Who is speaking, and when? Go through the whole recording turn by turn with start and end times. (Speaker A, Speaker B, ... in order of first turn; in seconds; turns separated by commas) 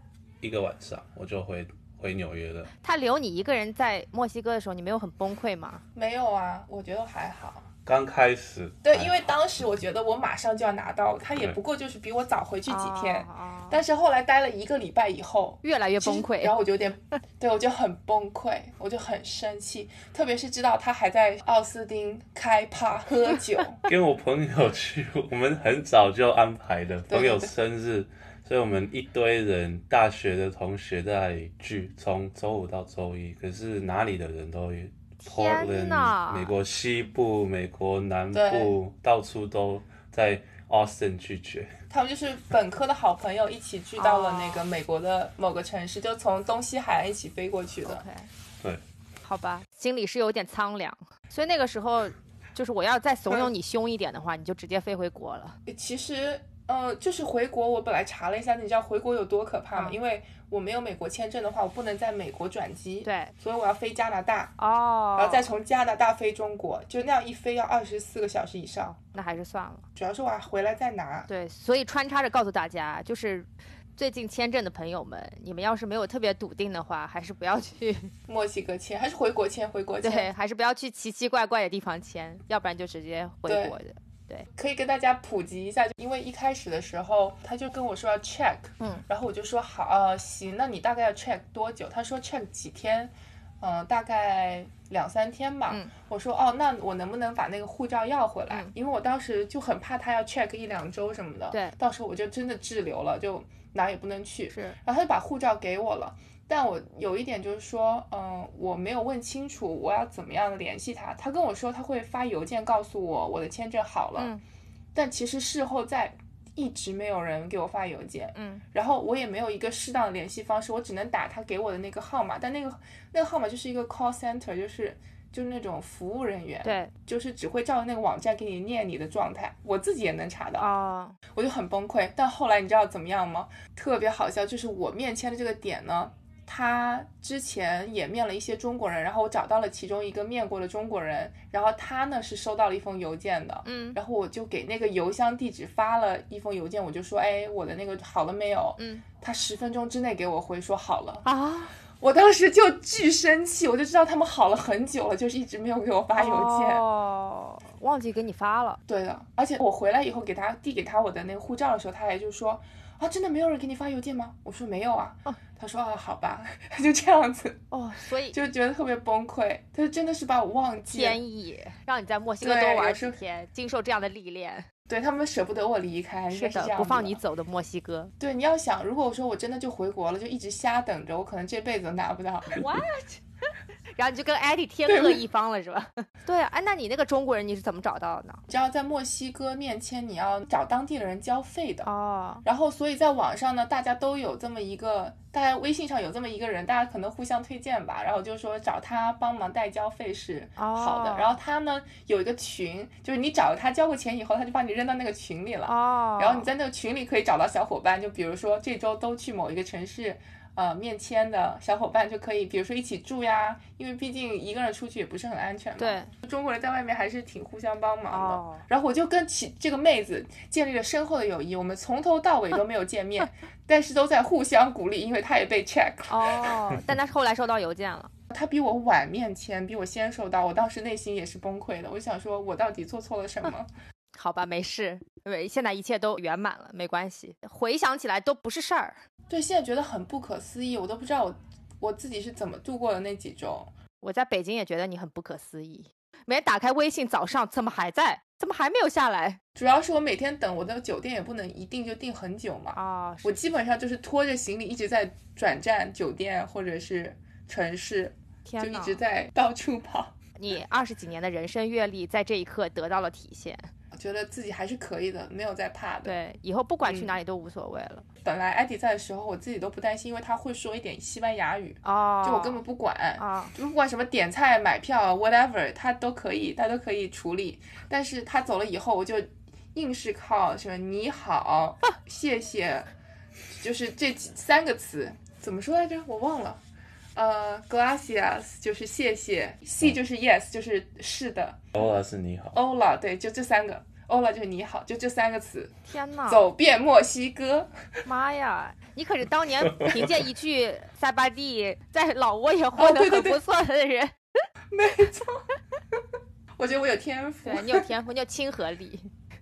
Speaker A: 0.4-2.7, Speaker B: 2.8-5.8, Speaker C: 5.9-7.7, Speaker A: 7.8-9.3, Speaker C: 8.8-23.8, Speaker B: 12.7-13.8, Speaker B: 15.6-16.5, Speaker A: 23.9-41.7, Speaker C: 27.1-27.5, Speaker B: 35.2-36.5, Speaker C: 38.3-38.7, Speaker C: 41.9-48.0, Speaker B: 44.0-44.7, Speaker B: 47.8-48.3, Speaker B: 49.2-55.6, Speaker C: 55.7-64.6, Speaker B: 63.0-63.3, Speaker B: 64.6-65.5, Speaker C: 65.2-69.0, Speaker B: 69.1-69.8, Speaker C: 70.0-71.3, Speaker B: 71.3-78.1, Speaker C: 78.3-80.3, Speaker B: 80.0-84.5, Speaker C: 83.5-83.8, Speaker C: 84.5-114.3, Speaker B: 114.2-114.4, Speaker C: 114.9-130.7, Speaker B: 118.3-118.6, Speaker B: 126.6-126.9, Speaker B: 130.6-131.2, Speaker C: 131.3-151.2, Speaker B: 143.6-144.0, Speaker B: 148.8-149.0, Speaker B: 151.2-151.7, Speaker C: 152.0-156.8, Speaker B: 156.2-158.8, Speaker C: 158.9-167.6, Speaker B: 167.7-168.3, Speaker C: 168.3-171.2, Speaker B: 170.8-174.7, Speaker C: 172.4-173.2, Speaker C: 174.9-177.2, Speaker B: 176.3-178.1, Speaker C: 178.2-182.6, Speaker B: 182.5-183.2, Speaker B: 183.9-188.4, Speaker C: 184.9-185.2, Speaker C: 188.5-191.9, Speaker B: 191.8-192.4, Speaker C: 192.4-226.6, Speaker B: 200.6-201.3, Speaker B: 205.7-206.5, Speaker B: 215.8-216.1, Speaker B: 218.1-218.6, Speaker B: 226.1-228.1, Speaker C: 228.3-233.7, Speaker B: 234.1-239.0, Speaker C: 239.3-243.7, Speaker B: 244.0-249.4, Speaker C: 249.6-260.1, Speaker B: 252.7-253.4, Speaker B: 258.4-259.0, Speaker B: 260.4-263.7, Speaker C: 263.9-266.2, Speaker B: 266.0-268.0, Speaker C: 266.8-267.1, Speaker C: 268.2-282.9, Speaker B: 271.8-272.6, Speaker B: 273.2-273.5, Speaker C: 283.6-286.6, Speaker C: 287.1-291.8, Speaker A: 291.7-292.6, Speaker C: 292.5-295.8, Speaker B: 295.9-296.4, Speaker C: 296.3-298.0, Speaker B: 298.0-304.1, Speaker C: 302.7-303.4, Speaker C: 304.7-305.5, Speaker C: 306.6-307.9, Speaker B: 307.4-309.1